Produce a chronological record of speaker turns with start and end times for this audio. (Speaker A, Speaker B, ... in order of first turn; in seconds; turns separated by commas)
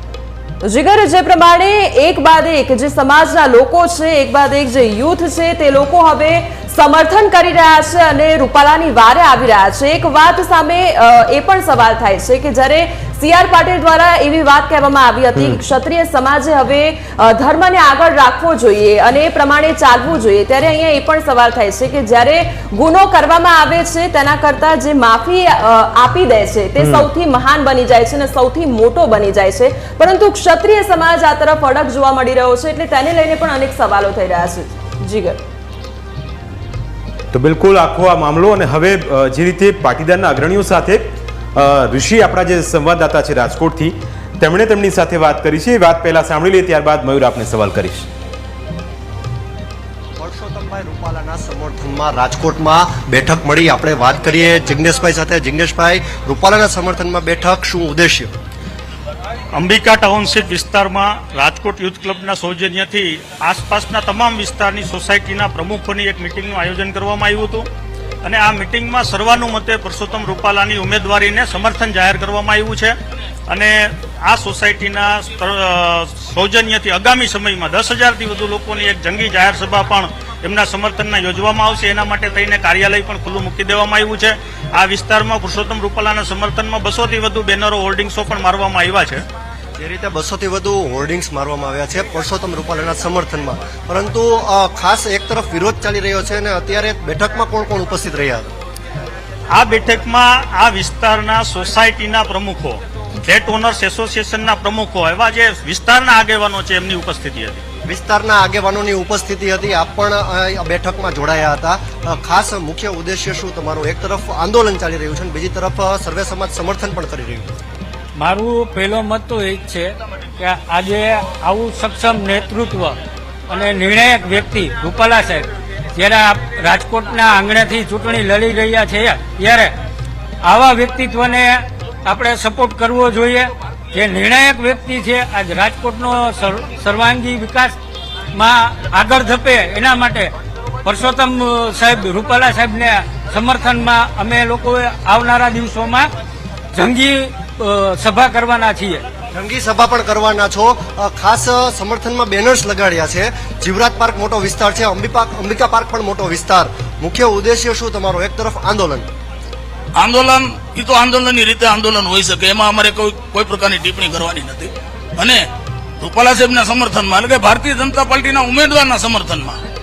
Speaker A: 0.6-35.4, Speaker B: 37.3-41.0, Speaker B: 41.5-48.1, Speaker C: 50.2-58.3, Speaker D: 59.5-67.7, Speaker D: 68.2-73.0, Speaker D: 73.5-89.2, Speaker C: 89.8-98.5, Speaker D: 99.5-107.6, Speaker C: 107.9-117.5, Speaker E: 118.2-123.0, Speaker E: 123.5-129.7, Speaker E: 130.4-137.8, Speaker E: 138.3-140.3, Speaker E: 140.8-146.1, Speaker E: 146.7-149.0, Speaker C: 149.3-159.1, Speaker F: 159.9-165.4, Speaker F: 166.0-169.6